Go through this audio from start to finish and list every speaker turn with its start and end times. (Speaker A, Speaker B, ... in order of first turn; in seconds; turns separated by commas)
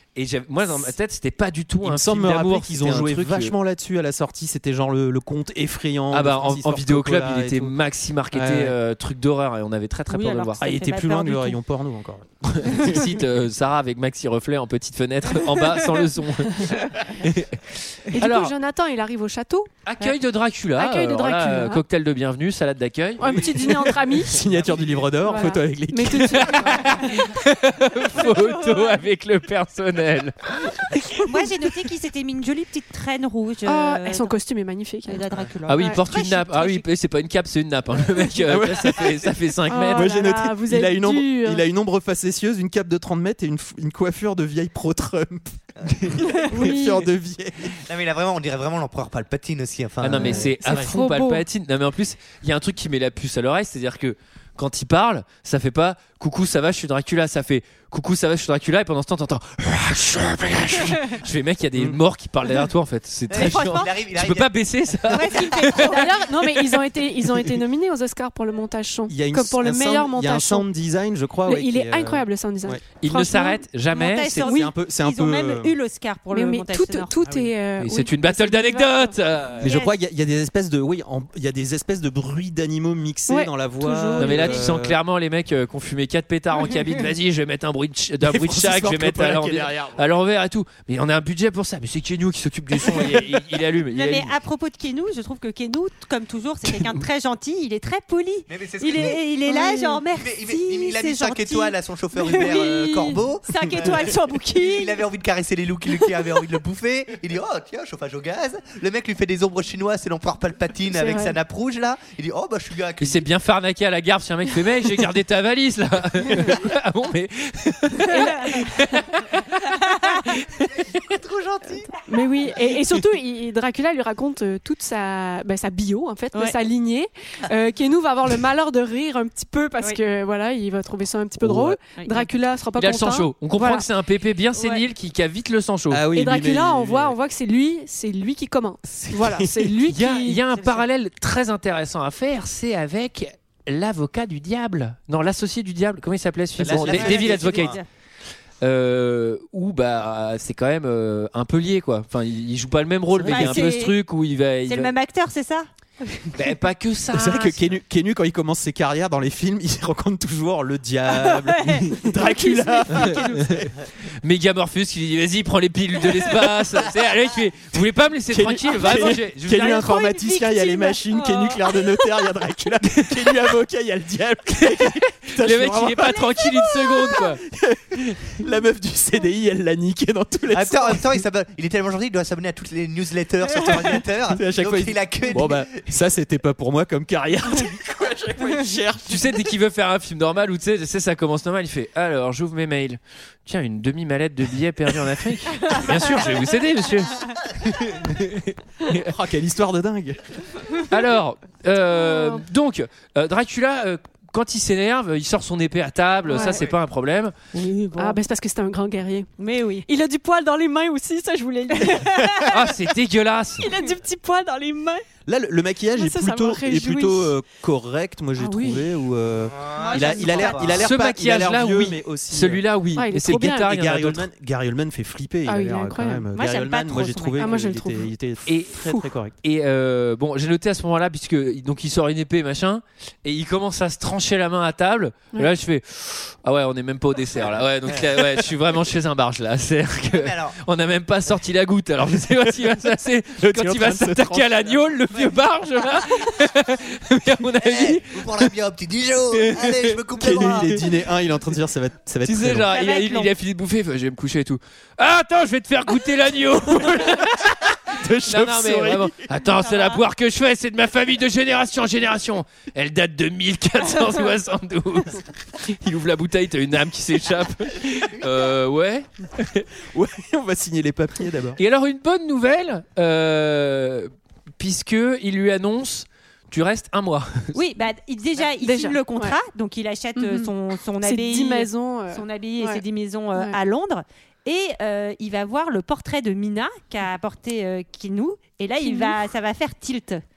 Speaker A: 0.1-3.5, Speaker B: 1.8-7.8, Speaker A: 6.1-10.7, Speaker B: 8.3-8.8, Speaker C: 10.1-11.6, Speaker B: 10.6-13.1, Speaker A: 12.5-18.5, Speaker D: 18.1-19.7, Speaker A: 19.9-23.9, Speaker D: 20.8-21.8, Speaker D: 23.2-24.4, Speaker B: 23.4-26.6, Speaker D: 25.2-27.1, Speaker A: 26.2-31.2, Speaker C: 31.3-34.3, Speaker D: 33.6-35.2, Speaker C: 35.1-36.9, Speaker A: 35.7-40.1, Speaker B: 38.5-39.3, Speaker D: 39.7-41.6, Speaker B: 39.9-47.7, Speaker E: 45.8-46.2, Speaker D: 46.5-47.1, Speaker E: 47.8-50.5, Speaker A: 50.0-66.0, Speaker B: 50.2-50.9, Speaker D: 50.2-51.4, Speaker E: 63.3-65.2, Speaker C: 63.3-63.9, Speaker C: 65.1-66.3, Speaker D: 65.8-70.7, Speaker B: 69.1-72.8, Speaker D: 71.5-73.6, Speaker A: 73.0-74.5, Speaker C: 73.9-77.2, Speaker B: 74.5-75.8, Speaker D: 76.3-79.2, Speaker A: 77.8-79.7, Speaker B: 79.6-85.0, Speaker C: 79.6-80.0, Speaker D: 83.3-84.7, Speaker A: 84.2-94.3, Speaker B: 88.2-90.0, Speaker B: 92.8-93.2, Speaker C: 93.9-105.0, Speaker E: 98.5-99.2, Speaker D: 99.5-99.9, Speaker E: 100.1-113.3, Speaker D: 110.9-111.3, Speaker A: 113.0-120.7, Speaker D: 118.1-118.7, Speaker C: 119.8-120.2, Speaker E: 120.8-121.9, Speaker D: 122.1-133.9, Speaker B: 131.4-131.8, Speaker C: 131.9-132.3, Speaker A: 132.8-136.0, Speaker C: 134.6-134.8, Speaker B: 135.9-137.1, Speaker D: 136.1-140.4, Speaker B: 138.9-139.8, Speaker A: 139.9-147.8, Speaker C: 140.5-140.8, Speaker E: 146.6-147.8, Speaker C: 146.7-147.9, Speaker A: 148.6-154.9, Speaker B: 153.2-153.6, Speaker C: 153.2-154.0, Speaker C: 154.7-156.3, Speaker A: 156.3-157.8, Speaker B: 157.1-163.7, Speaker C: 161.1-163.4, Speaker A: 164.2-169.8, Speaker B: 168.3-181.2, Speaker C: 169.0-172.0, Speaker A: 172.9-173.4, Speaker A: 174.8-177.4, Speaker E: 180.5-185.9, Speaker B: 183.6-189.5, Speaker A: 189.1-199.1, Speaker B: 197.8-198.2, Speaker B: 199.0-200.2, Speaker A: 200.9-207.3, Speaker D: 201.9-202.4, Speaker D: 206.3-206.6, Speaker C: 207.5-208.2, Speaker D: 208.0-209.3, Speaker C: 209.4-209.9, Speaker D: 209.9-212.5, Speaker C: 211.8-212.5, Speaker A: 212.5-213.7, Speaker D: 213.6-215.0, Speaker B: 215.3-222.7, Speaker D: 216.0-217.3, Speaker D: 218.4-218.8, Speaker E: 219.5-220.8, Speaker C: 219.8-220.9, Speaker A: 220.8-224.3, Speaker D: 222.9-223.7, Speaker B: 223.7-229.3, Speaker D: 225.5-226.3, Speaker C: 226.3-227.6, Speaker D: 227.4-228.1, Speaker A: 228.5-228.9, Speaker A: 229.4-248.5, Speaker E: 240.1-240.6, Speaker B: 243.4-244.8, Speaker E: 247.6-250.9, Speaker A: 249.4-250.0, Speaker B: 250.2-252.7, Speaker A: 252.2-269.6, Speaker C: 252.7-253.3, Speaker B: 257.9-259.2, Speaker C: 259.6-260.0, Speaker B: 269.9-271.6, Speaker A: 271.6-277.6, Speaker C: 277.6-290.2, Speaker D: 278.6-279.4, Speaker D: 280.2-282.8, Speaker D: 288.8-289.2